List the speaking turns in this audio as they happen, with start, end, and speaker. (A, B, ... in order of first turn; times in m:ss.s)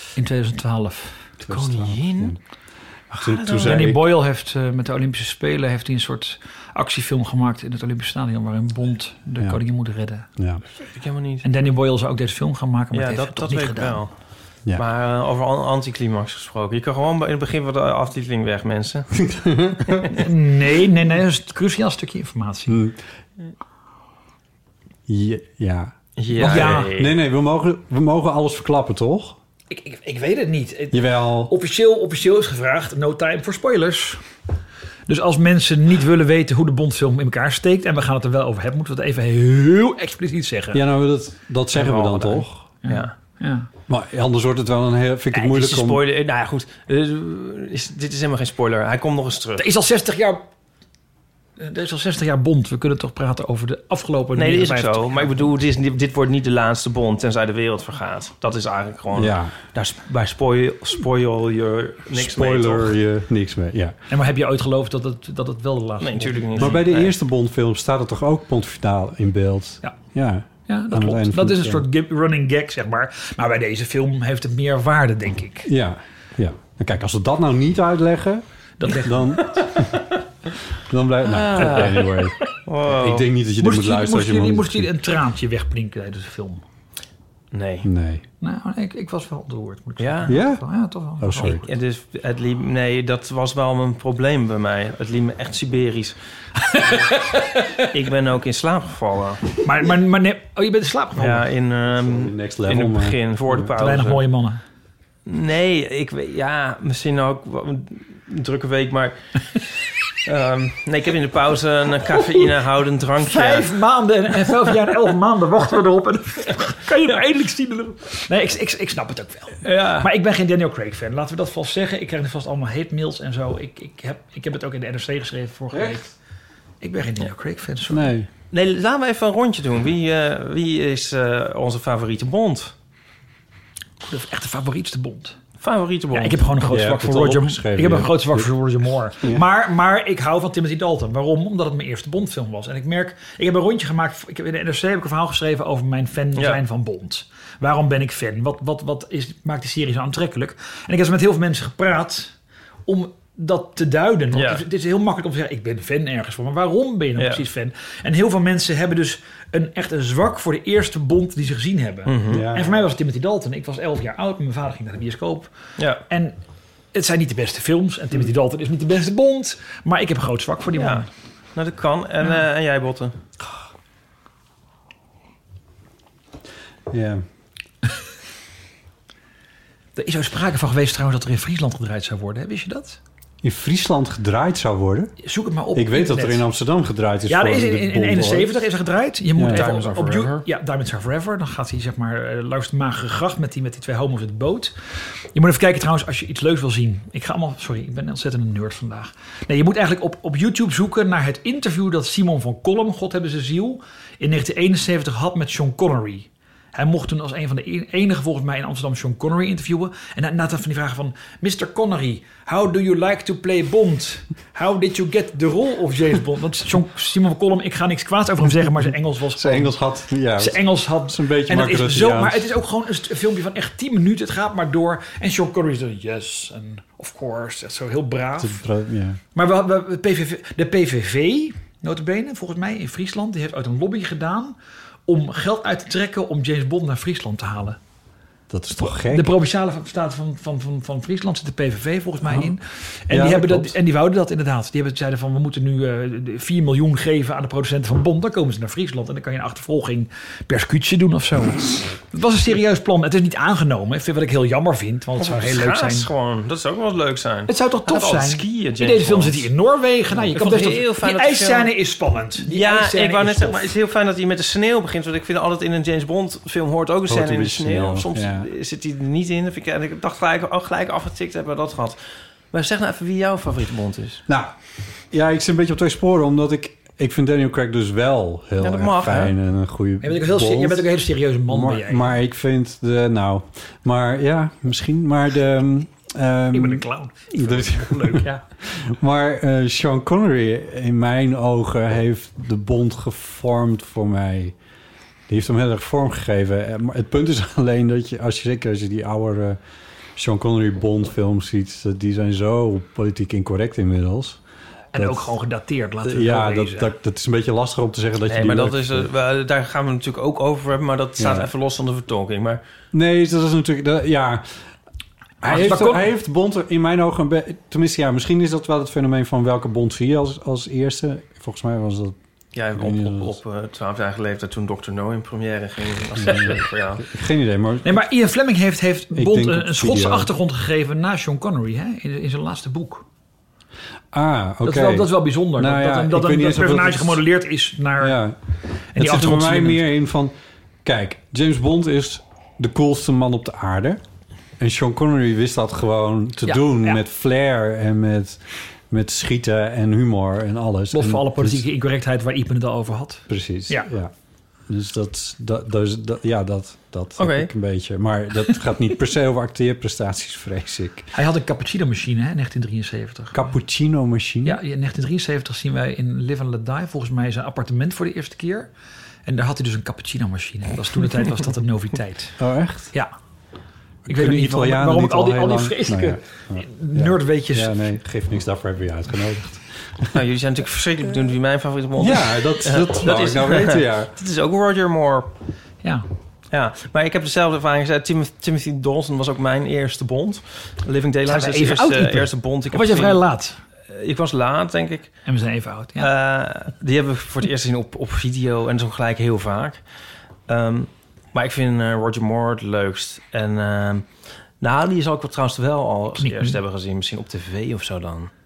0:00.2-0:01.2 A
0:01.4-0:02.4 B
0:01.5-0:02.4 C
0:03.2-0:03.9 C
0:03.2-0:04.1 B
0:03.6-0:10.3 A
0:10.4-0:10.6 B
0:10.8-0:11.5 C
0:11.4-0:14.0 A
0:12.9-0:14.1 C
0:14.7-0:19.1 C
0:19.1-0:20.1 B
0:20.1-0:22.8 A
0:22.7-0:23.0 B
0:25.1-0:29.4 B
0:26.2-0:27.2 C
0:26.4-0:26.9 A
0:29.7-0:34.2 A
0:30.9-0:31.5 B
0:35.1-0:40.8 A
0:40.7-0:42.6 B
0:41.7-0:43.1 C
0:42.8-0:43.7 A
0:43.9-0:46.0 B
0:45.3-0:49.7 C
0:49.6-0:50.4 A
0:51.6-0:55.4 A
0:54.4-1:03.0 C
0:59.1-0:59.5 B
1:02.1-1:04.0 B
1:04.1-1:06.8 A
1:06.0-1:07.2 C
1:06.6-1:11.9 B
1:10.7-1:15.7 A
1:15.7-1:20.1 B
1:18.8-1:19.5 A
1:20.8-1:22.4 B
1:21.2-1:23.3 C
1:22.9-1:24.9 B
1:23.6-1:26.6 A
1:27.5-1:27.9 C
1:27.8-1:28.2 B
1:28.4-1:31.6 A
1:30.0-1:30.4 C
1:30.3-1:30.6 B
1:31.2-1:31.6 B
1:31.4-1:36.2 C
1:36.6-1:37.9 A
1:37.8-1:39.6 C
1:39.6-1:41.4 A
1:41.2-1:44.2 C
1:41.9-1:43.7 B
1:43.8-1:44.6 A
1:45.3-1:53.7 C
1:53.2-2:06.1 A
1:59.6-2:00.1 C
2:05.7-2:06.1 B
2:06.8-2:08.1 A
2:07.9-2:08.3 B
2:08.5-2:12.7 C
2:14.0-2:15.4 A
2:15.6-2:16.5 C
2:16.1-2:32.4 A
2:16.6-2:18.5 B
2:26.4-2:26.6 C
2:32.9-2:45.5 A
2:34.3-2:34.6 C
2:37.2-2:37.4 C
2:42.1-2:42.5 C
2:42.3-2:42.8 B
2:45.8-2:46.0 C
2:46.1-2:46.4 A
2:46.9-2:51.1 A
2:50.7-2:53.2 C
2:56.9-2:57.2 B
3:00.0-3:03.0 A
3:03.4-3:05.1 B
3:05.2-3:06.4 A
3:05.7-3:08.6 B
3:07.3-3:14.8 A
3:09.4-3:09.6 B
3:09.5-3:10.4 C
3:15.4-3:39.8 A
3:39.3-3:42.5 B
3:40.4-3:48.6 A
3:48.4-3:49.2 B
3:49.4-3:54.6 A
3:55.1-3:57.8 A
3:58.5-3:59.3 B
3:58.8-4:16.1 A
4:03.1-4:03.8 B
4:15.2-4:19.5 C
4:17.5-4:23.7 A
4:20.3-4:21.7 C
4:22.4-4:32.0 C
4:27.1-4:28.5 B
4:32.5-4:34.2 C
4:34.3-4:34.5 B
4:35.1-4:40.9 B
4:38.6-4:39.3 C
4:40.0-4:42.2 A
4:41.5-4:54.6 B
4:46.5-4:48.4 A
4:55.3-4:59.6 B
5:00.2-5:04.4 B
5:04.9-5:06.9 A
5:05.0-5:05.3 B
5:06.0-5:09.1 B
5:08.3-5:12.6 C
5:11.2-5:11.5 B
5:12.9-5:14.5 B
5:15.4-5:22.2 B
5:15.5-5:16.1 A
5:22.5-5:27.1 C
5:22.7-5:23.4 B
5:26.2-5:28.0 B
5:27.8-5:33.0 A
5:29.1-5:30.3 B
5:34.1-5:37.2 B
5:34.6-5:38.2 A
5:38.0-5:38.4 B
5:38.9-5:39.9 A
5:39.0-5:44.0 B
5:44.6-5:51.6 B
5:46.5-5:47.0 A
5:50.9-5:53.9 A
5:53.3-5:54.1 B
5:54.7-6:01.1 B
5:57.2-5:57.5 C
6:01.1-6:03.4 A
6:03.3-6:04.6 B
6:04.4-6:08.7 A
6:09.3-6:12.4 A
6:12.4-6:12.9 B
6:14.0-6:20.2 B
6:14.1-6:17.9 A
6:20.1-6:25.3 C
6:22.0-6:24.1 B
6:26.5-6:33.2 C
6:31.3-6:33.6 A
6:33.9-6:35.1 C
6:35.3-6:36.1 A
6:36.0-6:39.8 C
6:40.5-6:44.1 C
6:44.6-6:48.3 C
6:46.2-6:46.6 A